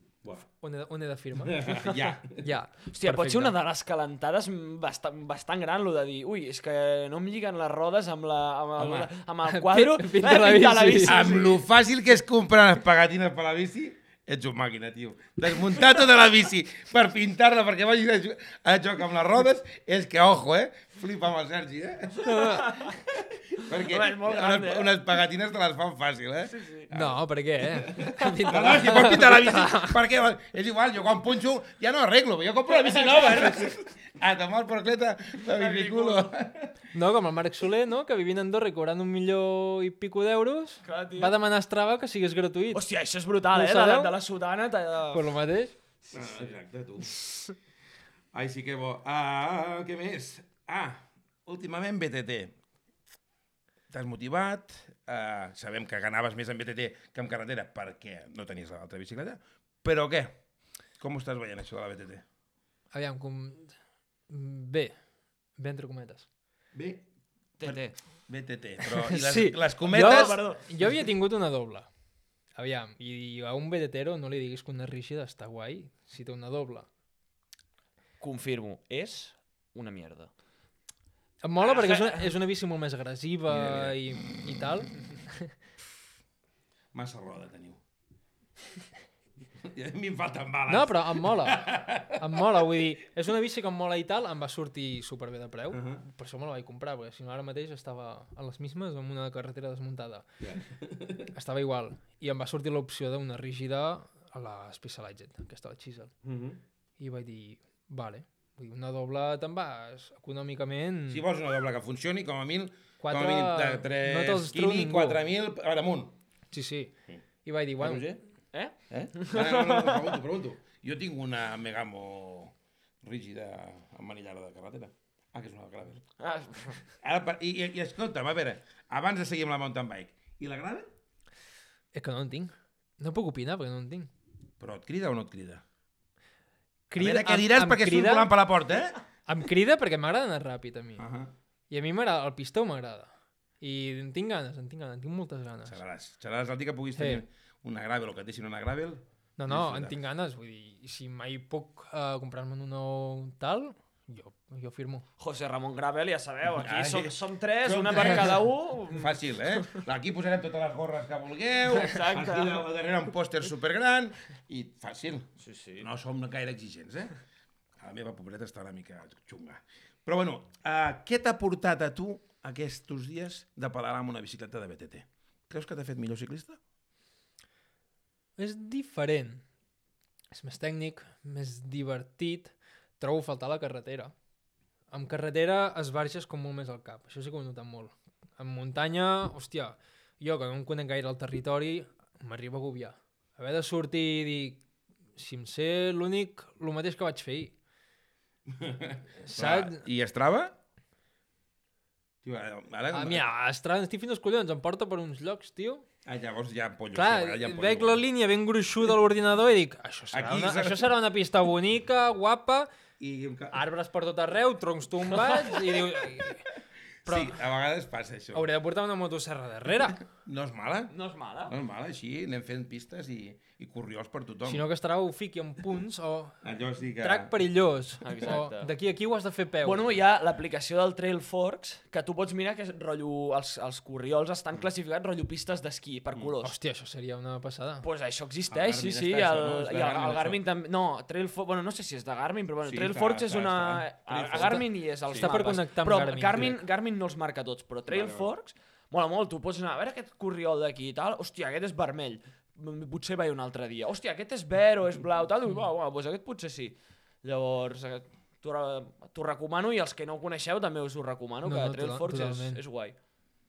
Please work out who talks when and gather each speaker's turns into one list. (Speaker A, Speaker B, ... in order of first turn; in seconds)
Speaker A: 0.5-1.8, 2.4-3.5, 9.5-11.2, 22.2-22.8, 26.9-30.0, 36.9-42.8, 43.5-44.1, 45.1-45.7, 62.9-63.8, 64.3-65.0, 65.5-66.3, 68.8-71.9, 72.5-76.9, 81.4-85.5, 90.7-100.3, 101.3-106.1, 107.0-111.2, 113.0-115.2, 116.5-118.2, 131.9-134.1, 136.9-138.3, 139.2-141.1, 141.7-145.8, 147.0-147.2, 149.4-155.0, 178.4-179.4, 180.3-184.1, 184.9-194.6, 195.2-197.5, 199.2-199.8, 202.9-205.8, 206.9-212.7, 213.5-217.4, 218.3-220.0, 224.4-226.4, 227.0-229.9, 236.4-237.8, 244.3-246.6, 261.4-262.6
Speaker B: 1.4-2.4, 8.8-9.1, 11.0-36.9, 46.1-47.3, 48.3-52.6, 53.9-60.4, 61.0-62.2, 66.7-67.0, 67.6-70.4, 83.5-84.7, 86.9-87.8, 89.5-92.6, 95.7-96.0, 100.4-101.3, 106.2-106.6, 111.1-116.2, 117.8-118.2, 118.9-126.0, 126.8-130.9, 134.6-135.6, 137.0-139.0, 141.0-141.3, 145.7-149.9, 156.4-167.1, 167.8-176.6, 198.5-200.5, 202.2-203.3, 206.0-208.0, 210.1-210.9, 213.0-213.6, 215.3-216.3, 217.0-218.5, 220.0-220.9, 221.5-224.6, 226.4-227.3, 238.5-240.4, 242.6-245.3, 247.9-248.3
Speaker C: 1.8-2.2, 2.9-11.6, 22.6-22.9, 23.6-25.0, 26.4-26.9, 32.7-33.7, 35.5-36.3, 40.8-41.3, 42.7-45.3, 46.0-46.5, 67.6-68.0, 69.9-70.7, 78.2-80.3, 81.6-82.3, 118.5-120.2, 126.2-126.8, 155.2-159.8, 161.7-162.6, 165.4-165.9, 220.9-221.6, 228.0-228.7, 229.6-236.6, 237.8-262.9